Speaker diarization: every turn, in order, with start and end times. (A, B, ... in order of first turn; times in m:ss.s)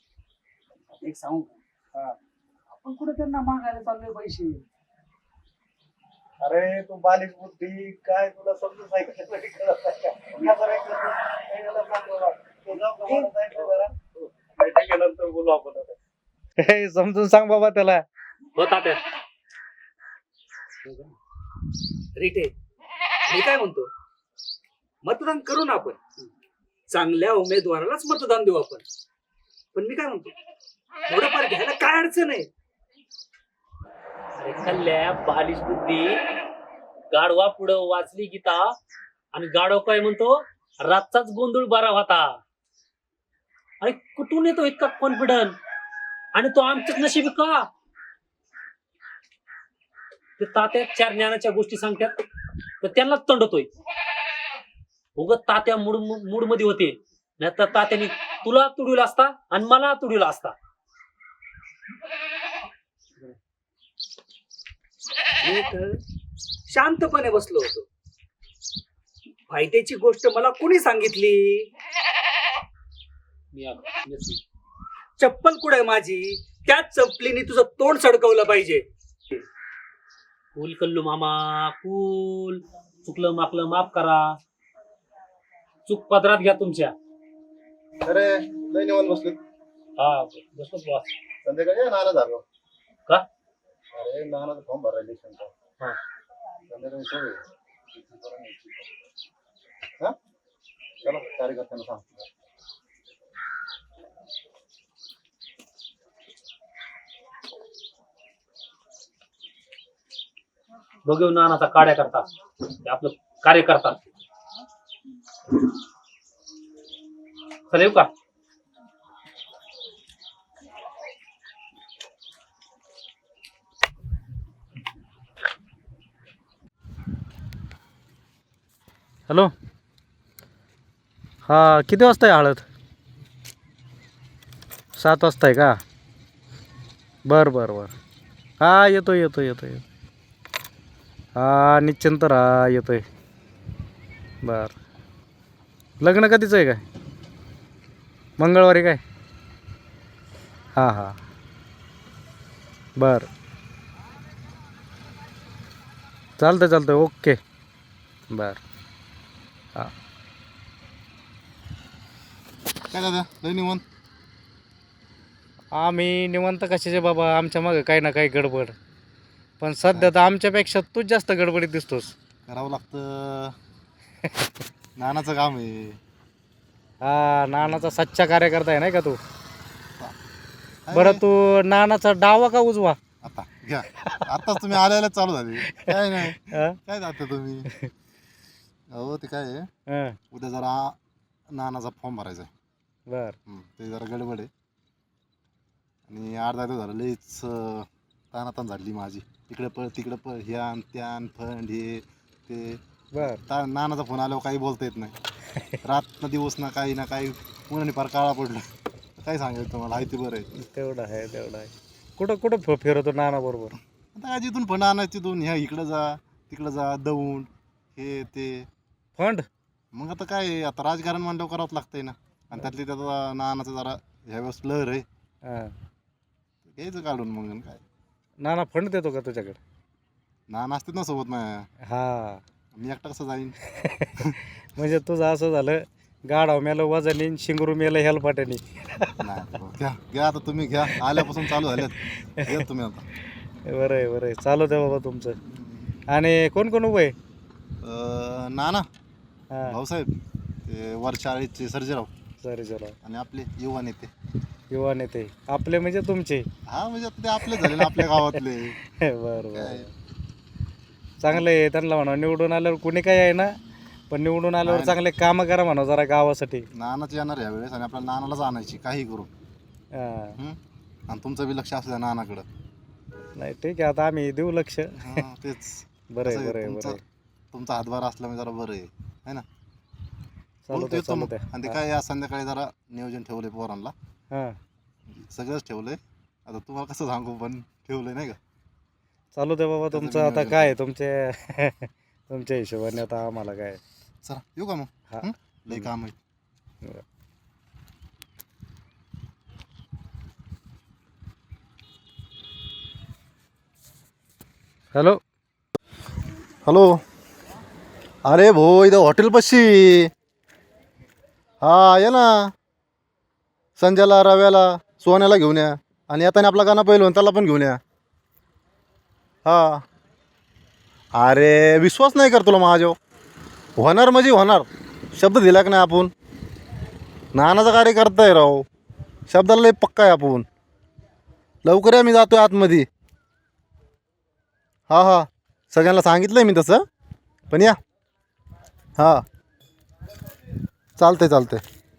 0:00.9-0:01.6 A
0:02.7-0:04.6 A
0:06.4-0:16.0 B
0:16.6-0:18.0 B
0:18.6-0:19.0 C
0:22.2-0:22.5 A
0:23.3-0:23.9 A
0:25.0-0:26.3 A
0:26.9-0:28.8 A
0:29.7-0:30.4 A
0:31.1-0:32.5 A
0:34.4-0:36.2 C
0:37.1-0:38.7 C
0:39.3-0:42.3 C
0:43.8-0:45.6 C
0:46.3-0:47.7 C
0:50.4-0:52.2 C
0:52.8-0:53.7 C
0:55.2-1:00.5 C
1:05.4-1:06.0 A
1:06.7-1:07.9 A
1:09.5-1:11.7 A
1:13.5-1:14.4 C
1:15.2-1:18.8 A
1:20.5-1:24.4 C
1:25.9-1:26.9 C
1:28.0-1:29.4 D
1:30.0-1:31.1 C
1:31.4-1:32.4 D
1:33.9-1:35.5 D
1:36.7-1:38.9 D
1:41.0-1:42.3 D
1:51.0-1:52.3 C
1:52.8-1:54.1 C
1:57.7-1:58.1 C
2:11.4-2:12.6 B
2:15.0-2:15.8 B
2:17.3-2:17.9 B
2:18.6-2:19.8 B
2:21.4-2:23.0 B
2:24.4-2:24.8 B
2:26.0-2:26.8 B
2:28.4-2:29.0 B
2:30.8-2:31.2 B
2:33.0-2:33.3 B
2:36.4-2:37.4 B
2:38.3-2:38.6 B
2:42.9-2:43.8 D
2:45.8-2:48.8 B
2:49.6-2:52.1 B
2:52.5-2:53.6 D
2:55.0-2:56.0 D
2:57.0-2:59.2 B
2:57.6-2:57.9 D
3:00.8-3:01.2 D
3:00.9-3:03.0 B
3:03.2-3:07.7 D
3:04.0-3:04.7 B
3:05.7-3:06.8 B
3:08.9-3:09.7 D
3:09.9-3:10.2 B
3:10.3-3:11.0 D
3:11.5-3:12.5 D
3:13.1-3:13.4 B
3:13.5-3:14.5 D
3:16.1-3:25.1 D
3:23.1-3:23.4 B
3:25.8-3:30.5 D
3:30.5-3:33.8 B
3:34.1-3:38.7 D
3:39.2-3:39.5 B
3:39.9-3:45.0 D
3:45.4-3:45.7 B
3:46.8-3:47.8 D
3:48.4-3:49.6 B
3:50.5-3:51.7 D
3:51.9-3:52.4 B
3:52.7-3:53.6 D
3:53.7-3:54.1 B
3:54.7-3:59.2 B
3:59.2-4:03.0 D
4:00.9-4:01.6 B
4:02.4-4:02.6 B
4:03.7-4:05.4 B
4:05.5-4:05.9 D
4:06.1-4:07.2 B
4:07.8-4:08.9 D
4:09.7-4:10.1 D
4:10.7-4:12.1 D
4:12.4-4:13.0 B
4:13.0-4:14.1 D
4:14.7-4:16.5 B
4:16.7-4:18.8 D
4:17.4-4:19.9 B
4:19.5-4:19.9 D
4:21.2-4:23.5 B
4:24.1-4:26.6 B
4:24.6-4:25.0 D
4:26.7-4:29.3 D
4:30.0-4:30.4 B
4:30.4-4:32.4 D
4:33.4-4:35.3 B
4:35.0-4:37.0 D
4:36.1-4:37.0 B
4:37.5-4:39.4 D
4:40.6-4:41.8 B
4:40.7-4:43.9 D
4:44.3-4:44.6 B
4:45.1-4:48.4 D
4:49.3-4:53.8 B
4:49.9-4:50.7 D
4:54.2-4:56.2 D
4:55.1-4:55.9 B
5:04.9-5:05.2 B
5:06.6-5:07.0 D
5:08.2-5:10.1 D
5:11.6-5:12.5 D
5:13.8-5:17.8 D
5:19.4-5:19.8 D
5:21.1-5:23.0 D
5:23.8-5:26.1 D
5:27.3-5:28.7 D
5:29.3-5:30.5 D
5:31.6-5:32.9 D
5:34.9-5:36.8 D
5:37.5-5:37.8 D
5:39.0-5:39.2 D
5:41.0-5:41.6 D